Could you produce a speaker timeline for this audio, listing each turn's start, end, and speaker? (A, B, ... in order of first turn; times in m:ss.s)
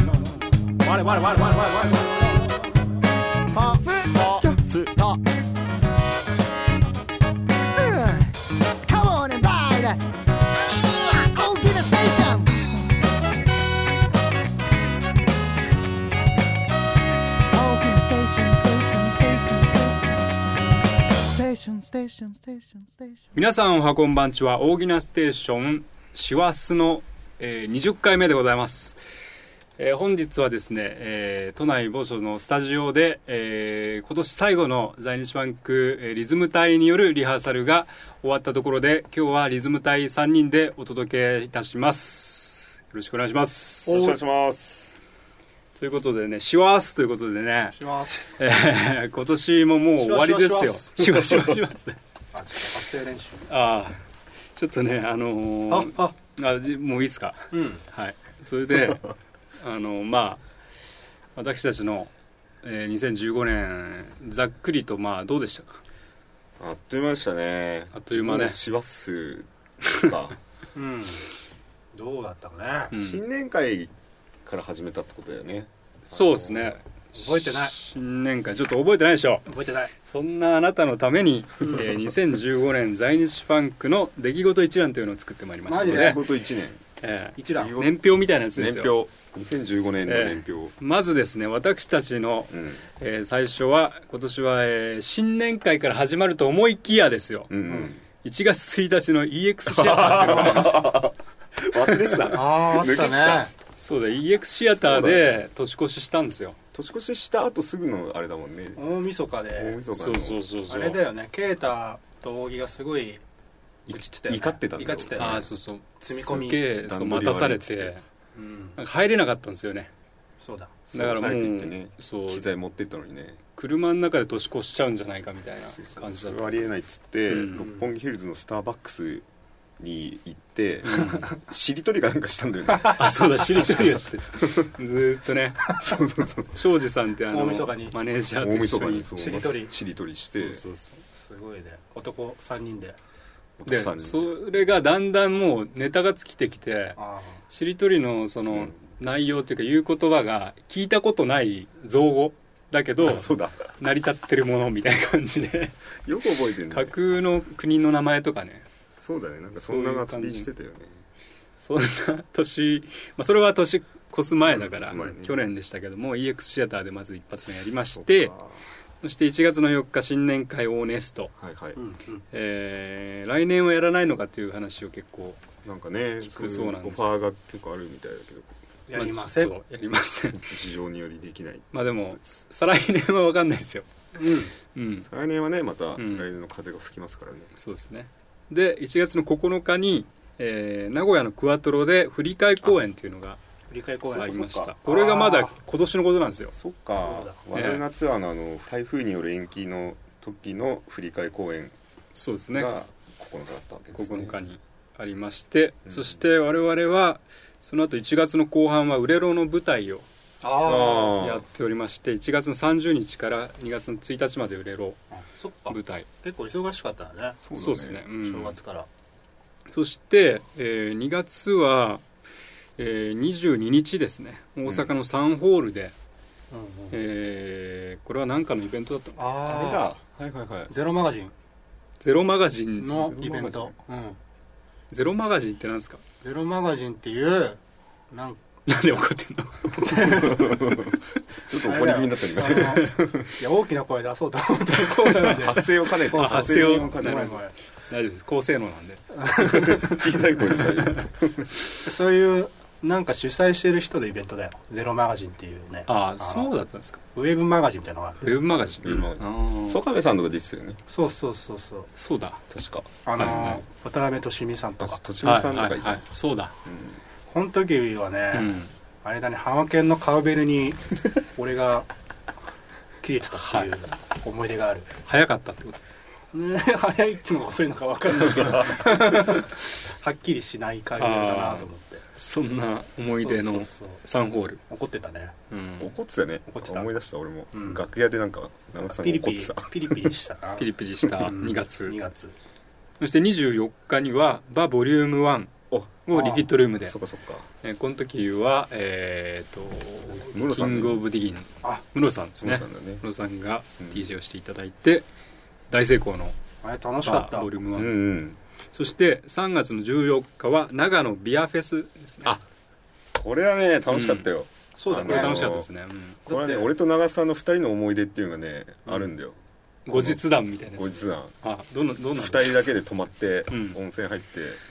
0:00.9-0:02.1 A
0:03.5-0:05.2 B
0:07.8-0:08.3 B
0:08.8-0:10.0 B
0:10.6-0:12.8 B
0:17.5-0:20.2 B
0:21.2-0:23.2 B
0:23.4-0:29.0 C
0:29.8-0:44.1 C
0:43.9-0:45.0 D
0:43.9-0:44.2 A
0:45.8-0:47.8 C
0:47.8-0:48.3 A
0:48.4-0:52.0 C
0:50.0-0:51.1 A
0:51.3-0:51.6 D
0:52.3-0:53.5 A
0:53.5-0:54.0 C
0:54.5-0:59.0 C
0:55.7-0:56.2 A
0:57.5-0:57.8 A
0:59.6-1:00.4 C
1:01.4-1:02.1 C
1:02.6-1:05.8 C
1:06.6-1:10.4 D
1:07.9-1:08.6 C
1:10.8-1:11.2 A
1:11.9-1:12.9 A
1:12.9-1:13.2 C
1:12.9-1:13.9 D
1:14.4-1:16.8 D
1:16.0-1:19.5 C
1:17.1-1:17.8 A
1:19.5-1:19.9 A
1:20.0-1:26.2 C
1:25.7-1:26.3 A
1:25.8-1:26.8 D
1:27.0-1:28.9 C
1:27.4-1:27.8 A
1:27.5-1:28.0 D
1:28.5-1:30.7 D
1:30.1-1:37.5 C
1:32.5-1:32.8 D
1:37.5-1:38.0 D
1:38.2-1:40.9 C
1:39.7-1:43.5 D
1:42.3-1:43.5 A
1:43.8-1:46.6 C
1:44.7-1:45.4 D
1:46.7-1:48.9 D
1:48.8-1:49.8 A
1:49.5-1:50.4 D
1:49.9-1:51.0 C
1:50.7-1:53.2 A
1:53.9-1:55.5 A
1:53.9-1:55.5 D
1:55.2-1:58.0 C
1:56.0-1:56.6 A
1:56.2-1:57.9 D
1:58.4-1:58.8 A
1:58.8-1:59.9 C
2:00.4-2:00.8 A
2:00.9-2:03.4 D
2:00.9-2:02.4 C
2:03.6-2:06.6 C
2:05.6-2:09.3 D
2:07.3-2:07.7 C
2:07.6-2:07.9 A
2:09.8-2:14.7 D
2:10.9-2:11.3 C
2:12.8-2:15.7 C
2:15.8-2:16.6 D
2:16.5-2:19.2 C
2:17.3-2:18.0 A
2:18.4-2:20.6 D
2:19.2-2:19.7 A
2:20.3-2:21.0 C
2:21.1-2:23.0 A
2:23.6-2:24.4 D
2:23.7-2:27.0 C
2:27.0-2:27.4 A
2:27.5-2:35.8 C
2:28.5-2:28.8 D
2:33.0-2:33.7 D
2:36.0-2:37.0 D
2:36.7-2:38.7 C
2:39.0-2:41.0 D
2:39.5-2:40.5 C
2:41.6-2:48.3 C
2:44.5-2:45.4 D
2:47.9-2:48.6 D
2:49.0-2:51.3 C
2:51.4-2:51.8 D
2:51.8-2:52.2 A
2:52.3-2:55.4 C
2:55.6-2:58.5 D
2:56.2-2:57.2 C
2:58.9-2:59.6 A
2:58.9-3:00.5 C
3:00.3-3:02.2 D
3:01.7-3:03.9 C
3:04.2-3:04.5 A
3:04.7-3:05.1 C
3:05.0-3:07.5 D
3:06.0-3:06.3 C
3:07.6-3:13.4 C
3:13.7-3:15.6 A
3:14.1-3:16.5 C
3:14.1-3:14.7 D
3:16.5-3:21.8 D
3:17.0-3:17.4 A
3:17.6-3:17.8 C
3:22.1-3:22.7 C
3:22.5-3:24.4 D
3:24.0-3:30.1 C
3:25.9-3:26.2 D
3:30.4-3:31.2 A
3:30.6-3:31.4 D
3:31.2-3:35.0 C
3:35.1-3:37.4 A
3:35.7-3:36.1 C
3:37.4-3:38.1 D
3:37.6-3:38.6 C
3:38.2-3:38.9 A
3:39.7-3:42.0 C
3:42.8-3:45.9 C
3:44.7-3:44.9 D
3:46.5-3:47.0 A
3:46.9-3:49.4 C
3:49.2-3:50.0 A
3:49.4-3:50.7 D
3:50.7-3:51.3 A
3:52.0-3:53.5 C
3:52.8-3:54.2 A
3:53.0-3:53.8 D
3:54.9-3:56.0 C
3:56.2-3:57.6 A
3:58.1-3:58.4 A
3:58.7-4:00.2 C
3:59.8-4:00.4 A
3:59.9-4:03.3 D
4:01.6-4:07.5 A
4:05.3-4:07.4 D
4:06.1-4:07.3 C
4:07.9-4:09.0 C
4:09.2-4:10.0 A
4:09.4-4:11.5 D
4:11.8-4:16.5 A
4:15.9-4:17.0 C
4:17.2-4:18.3 A
4:18.2-4:19.8 C
4:18.6-4:20.8 D
4:20.9-4:21.9 A
4:22.0-4:22.4 C
4:22.5-4:23.6 D
4:23.0-4:25.0 A
4:23.2-4:23.6 C
4:24.8-4:26.1 D
4:25.2-4:26.5 C
4:26.6-4:27.0 D
4:27.3-4:31.9 A
4:28.3-4:28.7 C
4:33.0-4:34.9 A
4:33.4-4:33.7 C
4:35.1-4:35.8 C
4:36.3-4:42.0 A
4:38.2-4:39.4 D
4:41.0-4:44.6 C
4:43.1-4:44.0 A
4:44.7-4:45.4 A
4:45.5-4:45.9 C
4:45.8-4:50.2 D
4:46.5-4:46.9 A
4:47.5-4:47.8 A
4:48.9-4:50.7 A
4:50.6-4:52.0 C
4:51.0-4:51.3 D
4:51.2-4:52.4 A
4:53.0-4:55.5 C
4:55.7-4:56.1 D
4:56.1-4:57.0 C
4:56.1-4:56.5 A
4:56.7-4:57.4 D
4:57.6-5:05.1 C
5:00.2-5:01.0 D
5:02.4-5:03.0 D
5:03.8-5:04.0 D
5:05.7-5:06.4 C
5:06.6-5:07.5 A
5:07.0-5:08.0 C
5:07.8-5:08.4 D
5:08.7-5:12.4 C
5:13.2-5:15.7 D
5:13.9-5:14.3 C
5:14.8-5:15.5 A
5:15.0-5:16.2 C
5:16.3-5:19.4 D
5:16.3-5:16.6 A
5:19.9-5:22.7 C
5:19.9-5:21.4 D
5:22.2-5:24.6 D
5:23.5-5:23.8 C